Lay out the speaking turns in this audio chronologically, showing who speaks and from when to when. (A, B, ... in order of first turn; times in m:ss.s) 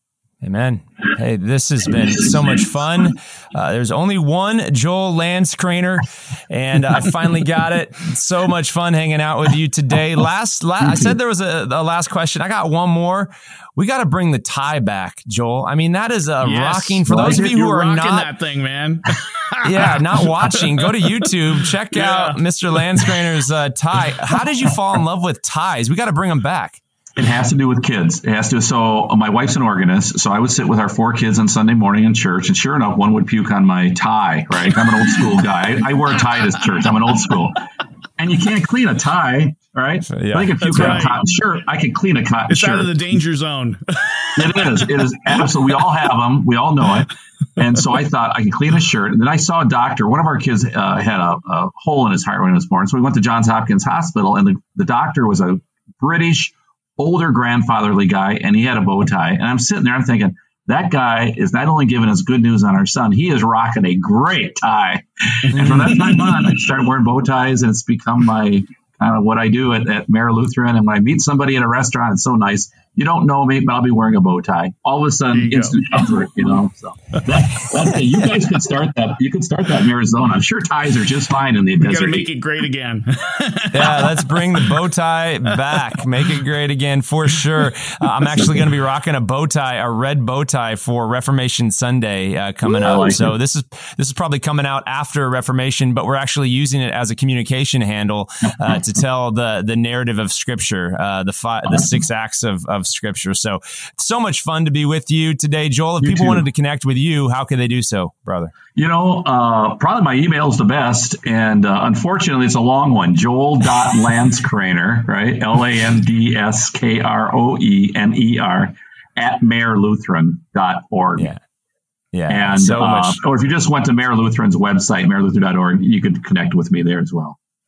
0:00.4-0:18.3 A
0:16.4-0:21.3 B
0:19.6-0:26.8 A
0:22.0-0:23.3 B
0:27.2-0:37.6 C
0:38.2-0:42.9 C
0:40.1-0:41.0 A
0:40.6-0:41.2 B
0:42.5-0:45.5 B
0:44.4-1:22.3 C
1:05.6-1:05.8 B
1:15.3-1:15.8 B
1:21.8-1:24.7 B
1:23.7-1:48.5 A
1:32.7-1:33.4 C
1:46.0-1:46.5 C
1:48.8-2:01.3 C
2:02.1-2:03.2 A
2:02.3-2:07.4 C